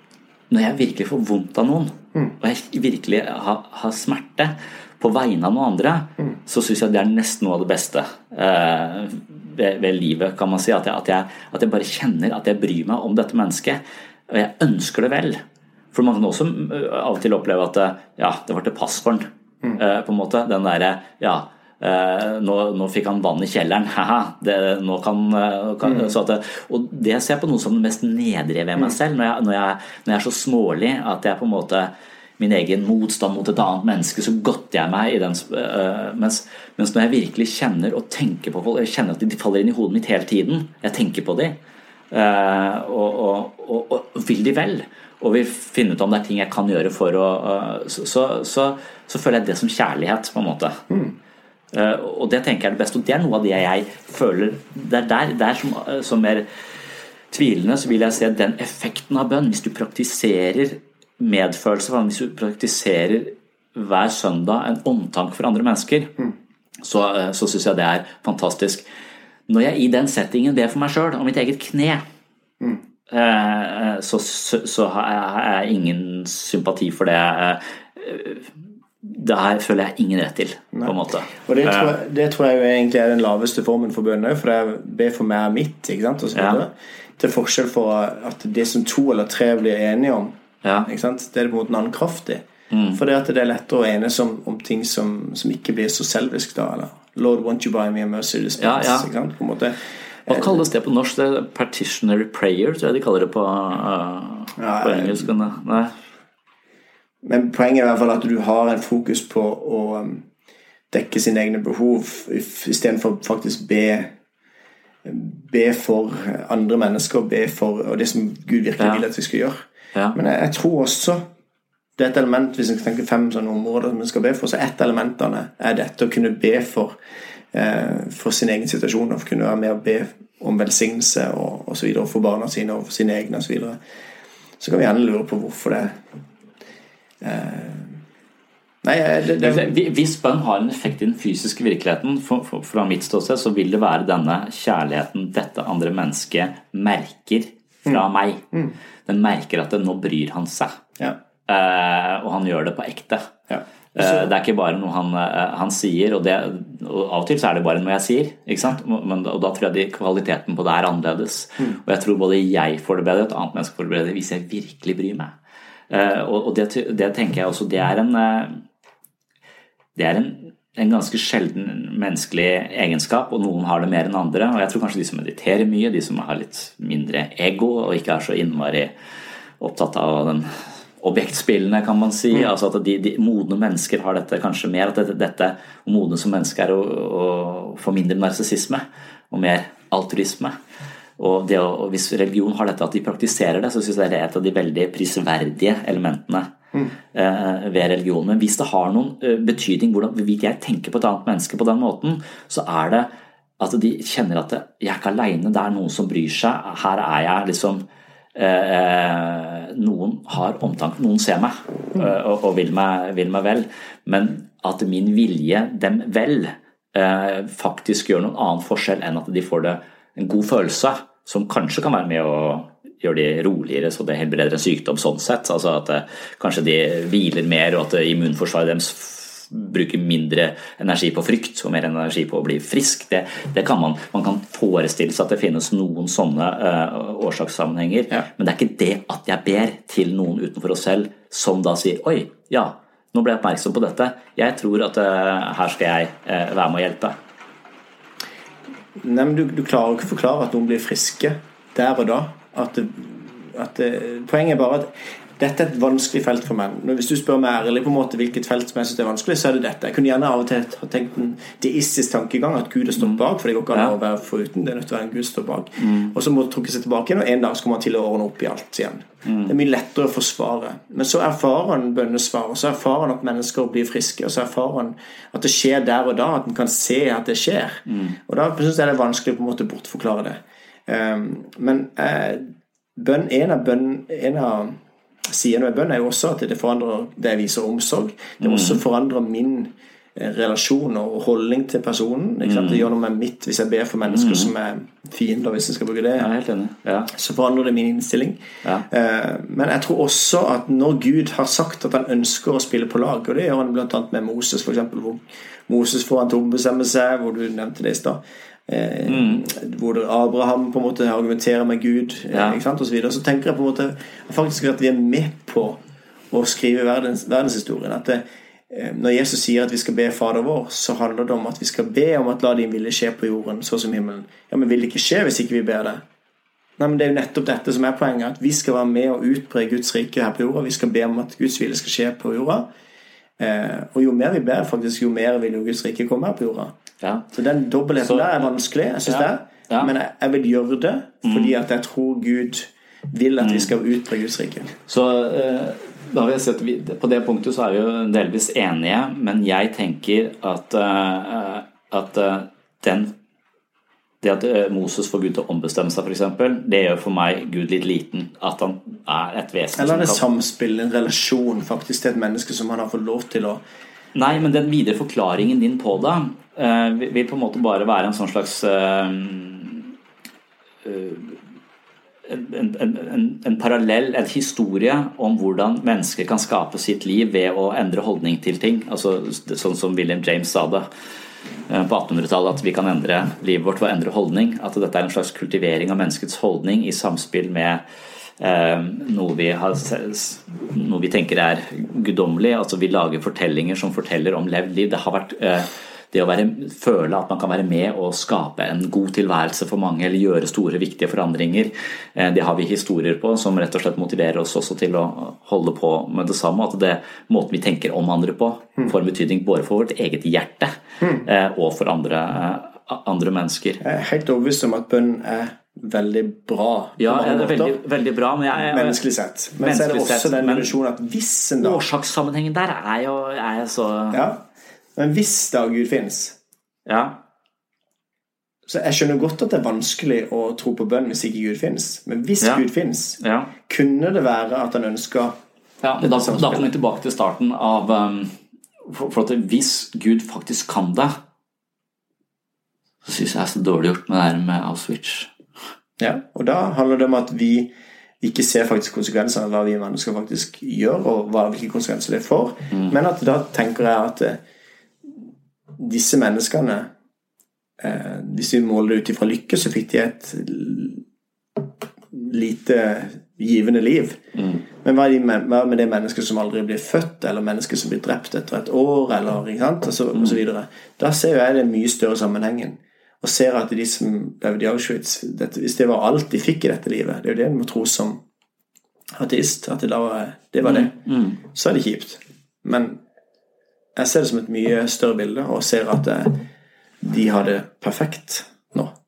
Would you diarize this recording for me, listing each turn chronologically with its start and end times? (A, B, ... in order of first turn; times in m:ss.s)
0:00.5-0:15.4 A
0:15.9-0:41.6 A
0:25.8-0:26.1 B
0:42.1-0:50.8 A
0:50.9-0:51.2 B
0:51.7-0:56.4 A
0:57.3-1:06.1 A
1:06.8-1:08.8 A
1:09.5-1:12.0 A
1:13.1-1:18.5 A
1:19.0-1:22.0 A
1:20.7-1:39.8 B
1:26.3-1:26.6 A
1:30.6-1:30.9 A
1:32.7-1:33.0 A
1:38.6-1:39.1 A
1:40.3-1:40.6 B
1:40.3-1:45.9 A
1:44.6-1:45.3 B
1:47.2-1:50.2 B
1:50.9-1:54.1 B
1:55.0-2:01.2 B
1:58.8-1:59.0 A
2:02.0-2:07.0 B
2:07.5-2:13.8 B
2:14.6-2:16.0 B
2:17.2-2:18.0 B
2:18.8-2:19.7 B
2:19.4-2:28.4 A
2:27.8-2:28.7 B
2:29.0-2:30.8 A
2:31.5-2:33.3 A
2:33.5-2:34.3 B
2:34.0-2:45.4 A
2:45.9-2:48.6 A
2:50.0-2:58.9 A
2:59.6-3:00.5 A
3:01.0-3:10.5 A
3:11.2-3:16.5 A
3:17.1-3:27.8 A
3:28.3-4:07.2 A
4:09.0-4:56.3 B
4:25.8-4:26.1 A
4:29.2-4:29.5 A
4:37.9-4:38.2 A
4:48.4-4:48.8 A
4:52.4-4:52.9 A
4:54.0-4:54.5 A
4:56.2-4:57.1 A
4:57.1-5:15.8 B
5:09.1-5:09.4 A
5:12.3-5:12.6 A
5:16.3-5:26.0 B
5:26.8-5:32.7 B
5:33.4-5:36.8 B
5:37.3-5:44.7 B
5:38.0-5:38.4 A
5:39.0-5:39.9 A
5:41.2-5:41.5 A
5:43.4-5:43.7 A
5:44.9-5:53.1 A
5:54.2-6:00.2 A
5:59.8-6:03.6 B
6:04.1-6:09.9 A
6:10.8-6:11.4 A
6:12.3-6:20.8 A
6:21.7-6:27.8 A
6:28.4-6:53.8 A
6:53.8-6:57.8 B
6:57.0-6:59.0 A
6:58.5-7:01.8 B
6:59.6-7:00.7 A
7:01.6-7:04.2 A
7:04.1-7:06.4 B
7:06.8-7:07.2 A
7:08.6-7:15.3 B
7:13.2-7:13.5 A
7:15.8-7:21.2 A
7:16.0-7:16.7 B
7:23.0-7:25.3 A
7:26.0-7:27.7 B
7:28.2-7:34.4 B
7:35.8-7:36.9 B
7:37.8-7:41.0 B
7:41.6-7:58.2 B
7:59.1-8:03.0 B
8:00.6-8:01.4 A
8:04.0-8:06.4 B
8:07.0-8:08.9 B